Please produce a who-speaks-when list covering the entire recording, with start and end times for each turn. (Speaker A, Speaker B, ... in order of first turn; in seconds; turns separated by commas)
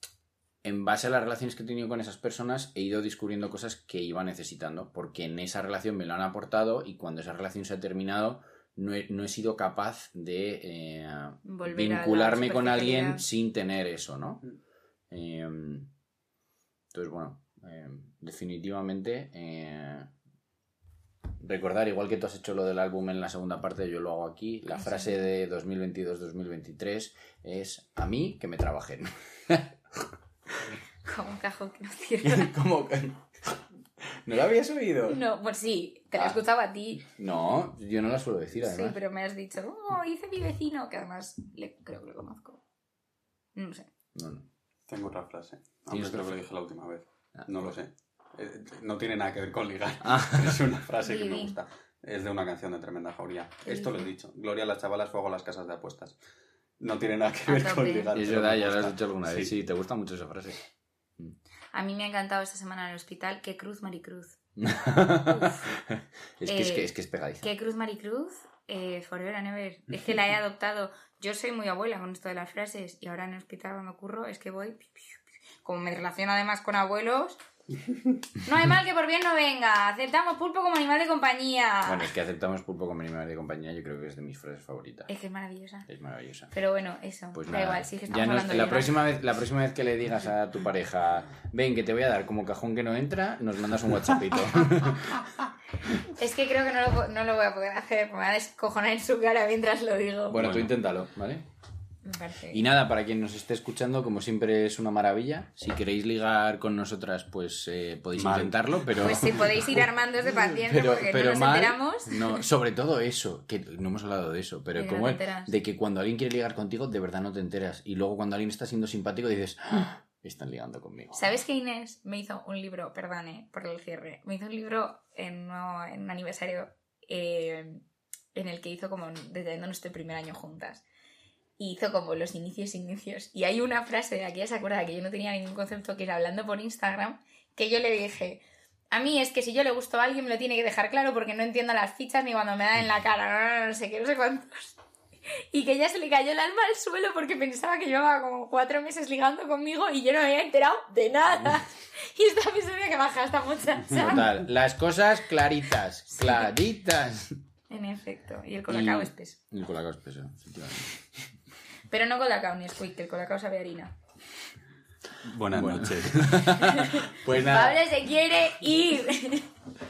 Speaker A: 0.6-14.4, Speaker B: 11.4-13.2, Speaker A: 15.1-15.9, Speaker A: 16.9-20.1, Speaker A: 21.4-30.7, Speaker B: 24.8-25.1, Speaker B: 31.0-32.5, Speaker A: 32.2-35.2, Speaker B: 35.1-37.1, Speaker A: 37.1-39.0, Speaker B: 38.6-42.6, Speaker B: 43.5-43.9, Speaker A: 44.1-44.5, Speaker C: 44.9-56.1, Speaker A: 45.9-46.4, Speaker A: 47.4-47.7, Speaker A: 50.0-50.6, Speaker B: 51.0-51.5, Speaker B: 53.6-54.1, Speaker C: 56.8-59.5, Speaker B: 57.5-58.1, Speaker A: 58.1-60.6, Speaker B: 61.7-64.4, Speaker A: 64.6-67.5, Speaker B: 65.2-65.7, Speaker B: 66.5-66.9, Speaker B: 67.4-77.4, Speaker B: 78.4-82.1, Speaker A: 81.8-85.1, Speaker B: 85.1-85.9, Speaker A: 85.9-86.5, Speaker B: 86.5-88.9, Speaker A: 87.3-95.2, Speaker B: 96.1-100.4, Speaker A: 100.3-101.5, Speaker C: 100.4-100.7, Speaker B: 102.0-102.6, Speaker A: 102.5-121.2, Speaker C: 108.1-108.6, Speaker B: 109.0-112.4, Speaker B: 114.7-115.5, Speaker B: 121.1-130.8, Speaker B: 131.6-144.8, Speaker B: 145.5-154.3, Speaker A: 153.9-157.4, Speaker B: 156.1-156.4, Speaker B: 157.7-159.4, Speaker A: 158.7-161.3, Speaker B: 161.9-163.9, Speaker C: 165.2-166.5, Speaker A: 165.5-167.8, Speaker B: 166.5-169.5